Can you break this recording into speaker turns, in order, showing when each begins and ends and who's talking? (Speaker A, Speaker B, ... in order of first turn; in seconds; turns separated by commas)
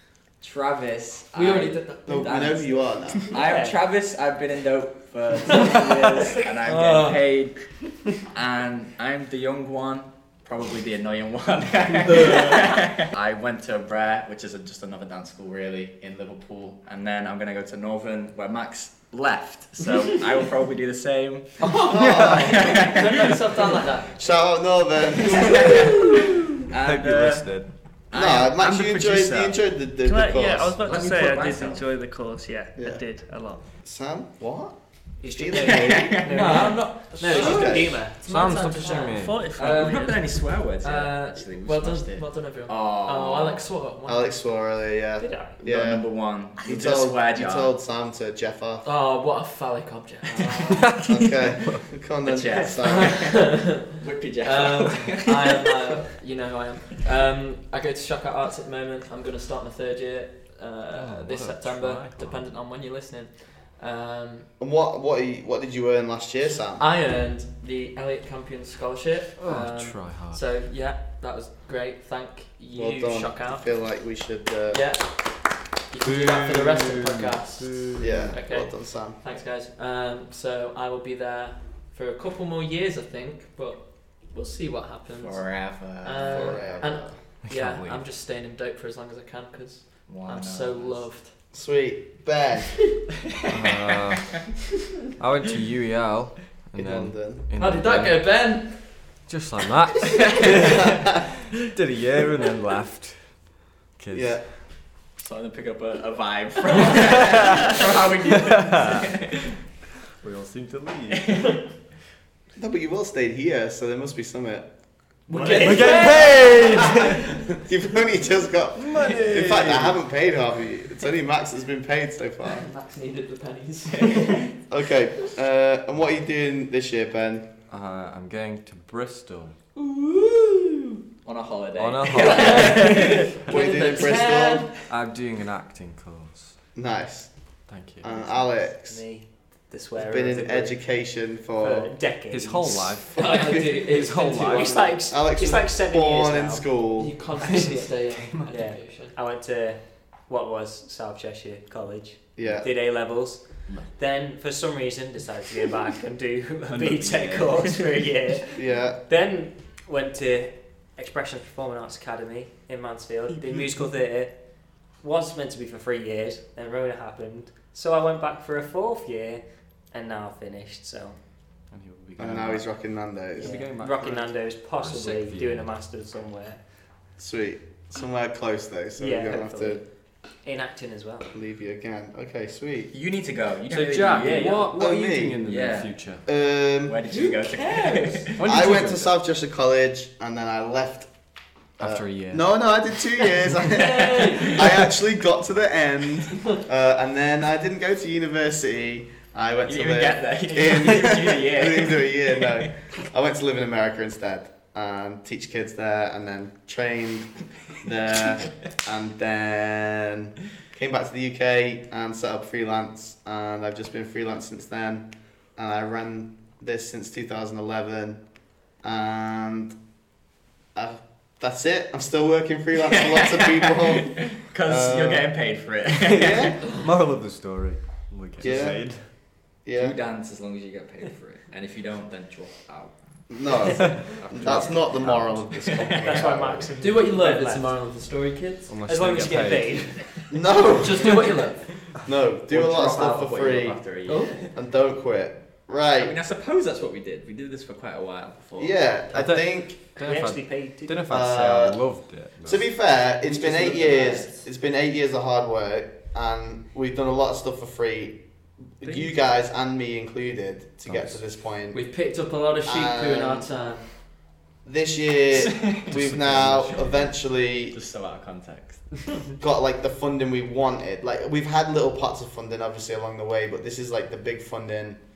Speaker A: 0.4-21.7, Speaker B: 1.4-2.5, Speaker C: 2.1-3.2, Speaker D: 3.3-3.8, Speaker B: 6.6-7.4, Speaker B: 12.1-12.5, Speaker C: 12.1-12.5, Speaker B: 21.6-24.2, Speaker C: 21.9-22.9, Speaker E: 22.0-22.6, Speaker A: 22.5-23.3, Speaker C: 24.1-26.2, Speaker A: 25.3-26.0, Speaker A: 26.7-29.6, Speaker E: 26.7-27.7, Speaker C: 28.1-30.8, Speaker F: 30.0-33.7, Speaker A: 30.9-31.9, Speaker C: 32.8-33.0, Speaker C: 33.8-34.8, Speaker D: 35.2-38.2, Speaker C: 35.3-36.2, Speaker A: 35.5-36.7, Speaker B: 36.2-40.1, Speaker C: 37.3-38.0, Speaker E: 38.2-39.4, Speaker F: 38.9-40.2, Speaker A: 39.6-43.7, Speaker B: 40.8-44.3, Speaker C: 44.1-48.9, Speaker D: 45.2-45.6, Speaker A: 45.6-47.7, Speaker B: 48.8-50.9, Speaker A: 50.3-50.6, Speaker E: 50.8-51.1, Speaker C: 51.0-53.3, Speaker A: 52.2-55.7, Speaker B: 52.9-53.9, Speaker B: 54.4-64.5, Speaker E: 60.9-62.5, Speaker C: 64.6-66.9, Speaker B: 66.8-73.7, Speaker E: 69.4-70.4, Speaker C: 72.7-74.8, Speaker B: 74.7-75.3, Speaker B: 75.9-91.3, Speaker E: 76.0-78.3, Speaker C: 78.0-79.2, Speaker A: 85.2-86.8, Speaker C: 86.3-87.2, Speaker E: 87.4-88.0, Speaker A: 90.1-91.1, Speaker C: 91.5-92.8, Speaker E: 93.5-94.4, Speaker E: 95.2-101.0, Speaker C: 96.8-97.5, Speaker B: 97.6-99.0, Speaker E: 101.5-104.4, Speaker C: 104.1-104.4, Speaker A: 105.2-109.4, Speaker E: 108.5-109.0, Speaker E: 110.2-111.4, Speaker A: 111.1-111.6, Speaker C: 112.6-114.7, Speaker B: 115.3-117.1, Speaker D: 115.5-116.0, Speaker E: 115.5-117.2, Speaker C: 116.5-122.7, Speaker E: 118.8-120.0, Speaker B: 122.5-124.4, Speaker A: 123.9-124.4, Speaker C: 124.7-127.5, Speaker E: 127.7-129.6, Speaker B: 129.8-130.9, Speaker A: 131.2-133.3, Speaker E: 131.8-133.5, Speaker B: 132.2-134.8, Speaker C: 133.5-134.7, Speaker E: 134.9-136.6, Speaker C: 136.8-139.0, Speaker E: 137.7-138.3, Speaker D: 138.9-140.8, Speaker C: 139.9-141.9, Speaker D: 141.6-143.6, Speaker E: 142.3-145.0, Speaker C: 143.2-143.7, Speaker B: 143.2-145.0, Speaker D: 144.3-146.7, Speaker C: 145.1-147.1, Speaker B: 147.0-149.1, Speaker E: 147.4-148.5, Speaker D: 147.4-147.9, Speaker D: 148.5-164.4, Speaker C: 152.4-152.7, Speaker E: 156.7-158.1, Speaker C: 158.6-159.0, Speaker E: 163.3-163.8, Speaker D: 165.0-171.2, Speaker E: 171.7-172.7, Speaker C: 172.2-173.6, Speaker E: 173.4-175.7, Speaker D: 173.4-176.6, Speaker C: 177.2-179.8, Speaker D: 179.0-179.8, Speaker D: 180.4-181.3, Speaker C: 181.3-182.9, Speaker A: 182.9-184.7, Speaker E: 183.7-186.2, Speaker D: 184.3-184.6, Speaker C: 184.8-185.4, Speaker A: 185.4-185.9, Speaker C: 186.3-187.0, Speaker A: 186.8-188.6, Speaker B: 187.1-188.3, Speaker E: 188.3-189.1, Speaker C: 188.4-191.1, Speaker E: 191.8-192.5, Speaker C: 191.8-218.2, Speaker B: 193.7-194.6, Speaker A: 193.8-194.7, Speaker A: 199.7-202.7, Speaker C: 218.8-219.8, Speaker C: 220.7-225.3, Speaker A: 222.8-226.6, Speaker E: 226.1-229.1, Speaker C: 226.1-226.6, Speaker C: 228.4-229.9, Speaker A: 229.8-236.4, Speaker C: 233.3-236.7, Speaker D: 235.9-237.7, Speaker B: 236.8-238.7, Speaker E: 238.7-239.8, Speaker D: 238.9-240.3, Speaker C: 240.3-241.3, Speaker B: 240.8-241.6, Speaker C: 241.9-243.8, Speaker A: 242.5-244.4, Speaker B: 244.1-244.3, Speaker C: 244.5-246.2, Speaker A: 245.9-248.8, Speaker C: 248.6-249.8, Speaker E: 249.1-252.7, Speaker D: 250.0-251.1, Speaker C: 251.1-251.8, Speaker C: 252.4-258.2, Speaker D: 253.8-254.3, Speaker C: 258.7-261.8, Speaker E: 260.9-261.2, Speaker B: 261.7-263.9, Speaker C: 262.7-263.5, Speaker C: 264.6-267.8, Speaker A: 265.5-265.9, Speaker E: 265.9-266.8, Speaker A: 266.7-267.1, Speaker A: 267.6-269.1, Speaker C: 269.4-275.0